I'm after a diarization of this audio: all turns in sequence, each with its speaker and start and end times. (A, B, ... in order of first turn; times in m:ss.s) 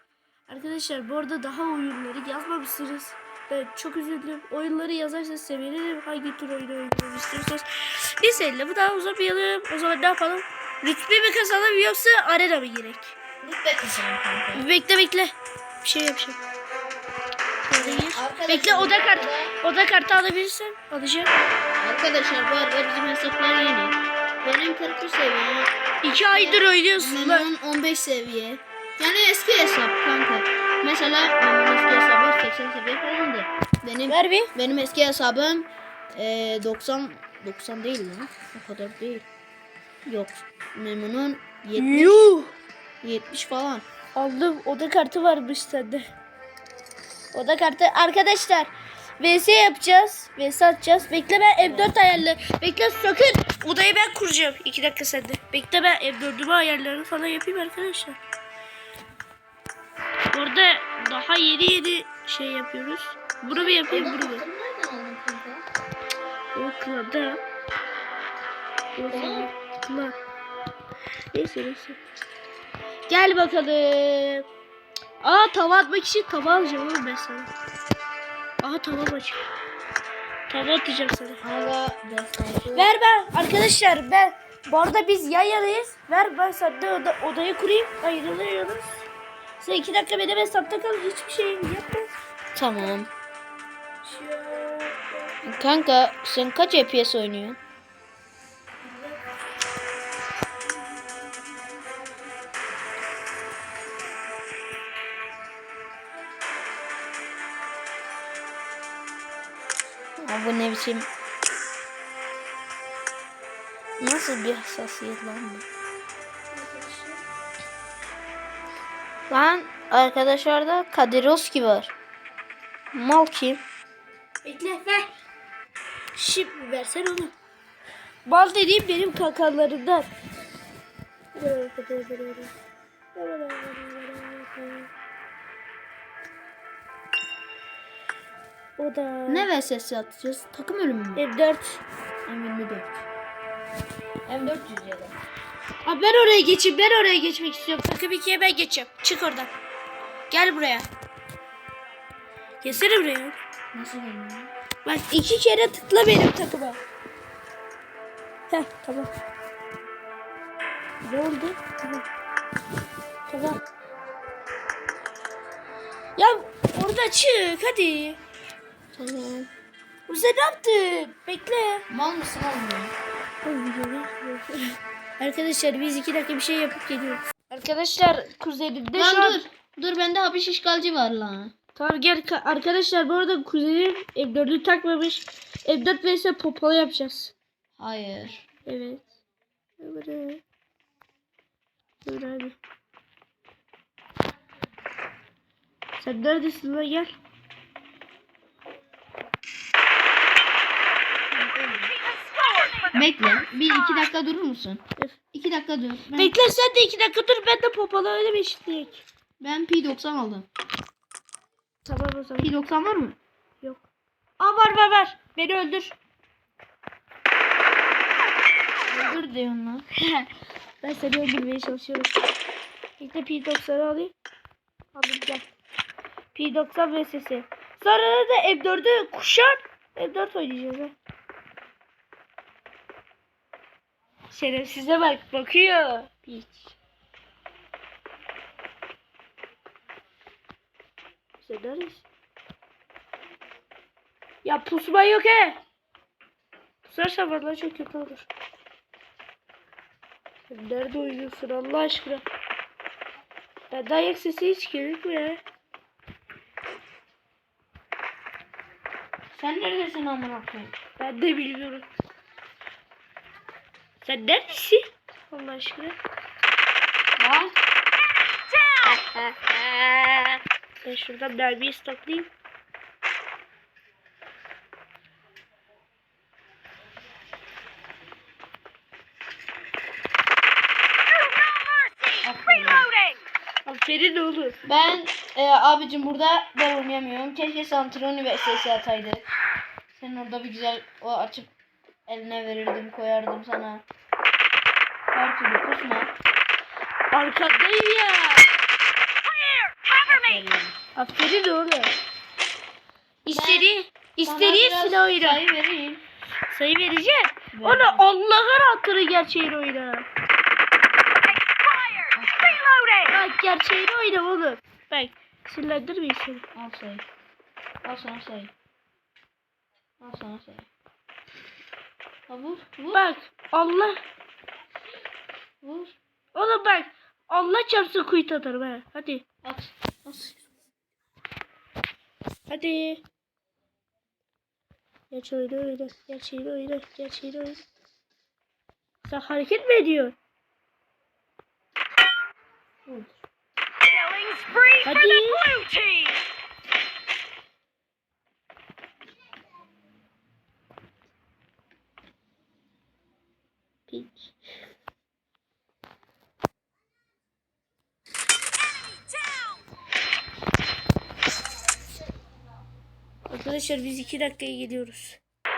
0:00.5-0:13.1 A
0:13.4-0:14.6 B
0:14.5-0:16.4 A
0:17.6-0:21.3 A
0:17.8-0:19.6 B
0:21.8-0:25.7 B
0:26.0-0:27.5 A
0:26.3-0:39.3 B
0:34.1-0:34.5 A
0:40.0-0:42.3 B
0:41.7-0:42.5 A
0:43.0-0:43.8 B
0:44.1-0:46.1 A
0:47.3-0:58.2 A
0:51.6-0:52.0 B
1:00.3-1:04.4 A
1:03.5-1:05.6 B
1:06.5-1:07.4 A
1:08.9-1:10.1 A
1:09.1-1:09.5 B
1:11.3-1:12.0 A
1:13.1-1:14.5 A
1:15.2-1:17.5 A
1:18.6-1:19.4 A
1:20.5-1:21.4 A
1:21.4-1:22.9 B
1:22.7-1:29.0 A
1:29.6-1:32.1 A
1:32.5-1:33.1 B
1:34.0-1:35.6 A
1:35.4-1:37.6 B
1:38.8-1:39.2 A
1:50.2-1:51.1 B
1:54.0-1:55.6 B
1:56.5-1:57.2 A
1:59.3-2:01.9 B
2:02.9-2:03.6 B
2:04.4-2:05.1 A
2:06.1-2:07.3 A
2:08.2-2:10.1 A
2:11.3-2:12.5 A
2:13.1-2:14.9 A
2:18.8-2:19.5 A
2:19.3-2:21.2 B
2:21.2-2:21.8 A
2:22.2-2:23.0 B
2:24.2-2:25.2 B
2:25.8-2:29.5 A
2:30.3-2:30.9 A
2:32.6-2:33.4 A
2:33.7-2:34.5 B
2:34.8-2:36.8 A
2:38.5-2:39.1 A
2:41.0-2:42.1 A
2:43.3-2:43.6 A
2:46.2-2:48.2 A
2:48.9-2:49.5 B
2:50.1-2:51.8 A
2:51.9-2:52.9 B
2:53.4-2:59.4 A
2:58.9-3:01.5 B
3:01.7-3:07.3 A
3:07.8-3:08.4 B
3:08.6-3:09.0 A
3:09.8-3:10.4 A
3:12.0-3:12.6 A
3:16.0-3:17.1 A
3:21.3-3:22.0 B
3:22.9-3:26.4 B
3:26.1-3:29.0 A
3:29.4-3:30.5 B
3:31.8-3:32.5 A
3:32.4-3:33.2 B
3:33.6-3:33.9 A
3:34.4-3:36.0 A
3:38.9-3:39.8 B
3:40.0-3:40.3 A
3:40.8-3:42.2 A
3:43.0-3:44.1 A
3:44.9-3:45.5 A
3:46.3-3:50.9 A
3:54.3-3:56.7 A
4:01.4-4:02.0 A
4:04.4-4:05.6 A
4:06.8-4:08.3 A
4:10.5-4:12.2 A
4:13.7-4:15.4 A
4:19.3-4:20.8 B
4:21.0-4:21.9 A
4:24.0-4:26.0 A
4:27.2-4:27.5 B
4:29.1-4:29.8 B
4:30.8-4:32.3 A
4:42.2-4:42.9 B
4:43.6-4:44.6 A
4:44.6-4:49.3 B
4:49.9-4:51.5 B
4:52.1-4:53.8 B
4:55.1-4:56.1 B
4:57.1-4:58.5 A
4:59.5-4:59.9 C
5:00.0-5:00.7 B
5:01.0-5:01.9 A
5:03.2-5:05.4 A
5:03.3-5:03.7 B
5:04.2-5:06.0 B
5:06.5-5:10.1 A
5:07.5-5:08.0 B
5:11.5-5:12.1 C
5:12.1-5:12.6 B
5:13.1-5:16.4 A
5:16.5-5:17.0 B
5:17.8-5:18.5 B
5:20.0-5:20.7 B
5:22.3-5:23.0 B
5:22.9-5:24.0 A
5:25.6-5:26.0 B
5:26.3-5:29.2 A
5:29.4-5:30.4 B
5:32.5-5:33.0 A
5:35.1-5:37.6 A
5:39.0-5:40.2 A
5:42.9-5:43.2 B
5:43.9-5:46.2 C
5:44.8-5:45.6 A
5:53.9-5:54.3 A
6:03.3-6:05.2 A